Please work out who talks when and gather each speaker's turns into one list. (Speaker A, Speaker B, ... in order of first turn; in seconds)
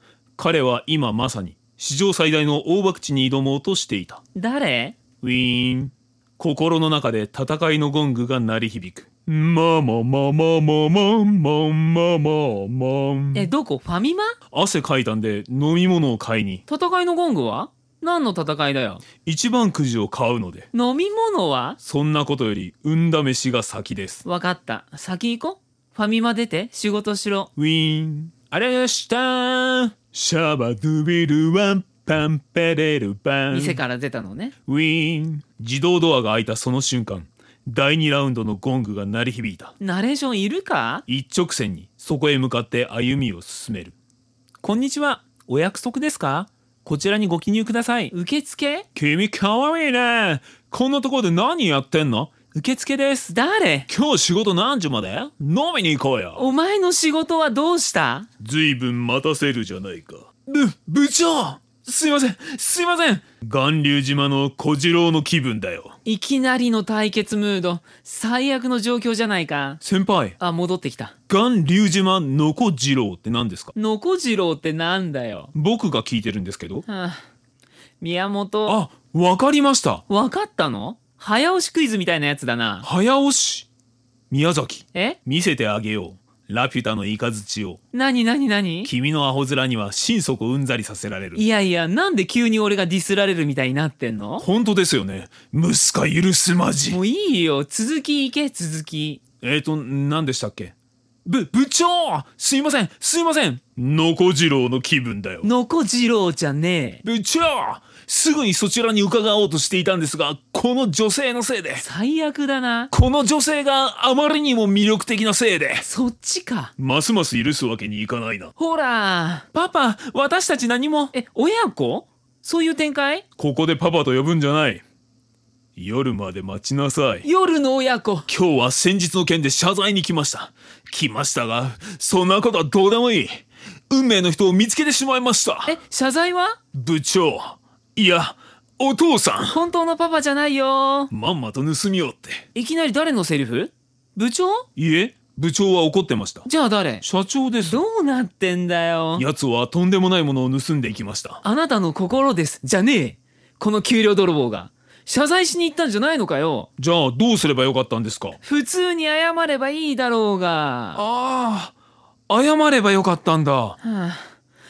Speaker A: 0.4-4.2, 5.2-13.5, 14.5-16.6, 19.2-20.7, 21.8-24.2, 27.6-33.8, 34.7-39.7, 41.1-44.0, 44.6-48.1, 49.0-53.3, 53.9-56.4, 58.4-66.0, 69.8-70.4, 71.3-73.7, 75.5-76.9, 78.7-80.0, 82.8-83.7, 84.3-87.8, 88.8-91.4, 94.4-97.0, 99.4-100.7, 101.2-105.5, 107.0-111.8, 112.9-115.8, 116.8-118.5, 119.5-121.1, 123.4-124.8, 125.8-127.3, 128.3-135.8, 136.7-139.6, 141.1-142.5, 144.8-146.5, 147.0-147.8, 149.2-151.4, 156.8-158.4, 160.9-161.7, 162.3-163.8
Speaker B: 4.3-5.0, 13.3-14.3, 16.7-19.0, 20.7-21.8, 24.2-27.5, 33.5-34.5, 39.8-41.0, 48.1-48.9, 53.3-53.9, 56.4-58.3, 66.0-69.8, 70.4-71.1, 73.8-75.5, 76.9-77.2, 78.0-78.8, 80.1-82.9, 87.9-88.9, 91.3-94.5, 96.9-99.2, 105.4-107.0, 111.8-112.9, 115.8-116.7, 118.6-119.5, 121.1-123.2, 127.2-128.3, 135.7-136.6, 139.5-141.1, 142.6-144.7, 146.5-147.0, 147.6-149.3, 151.4-156.7, 158.4-161.0, 163.8-164.3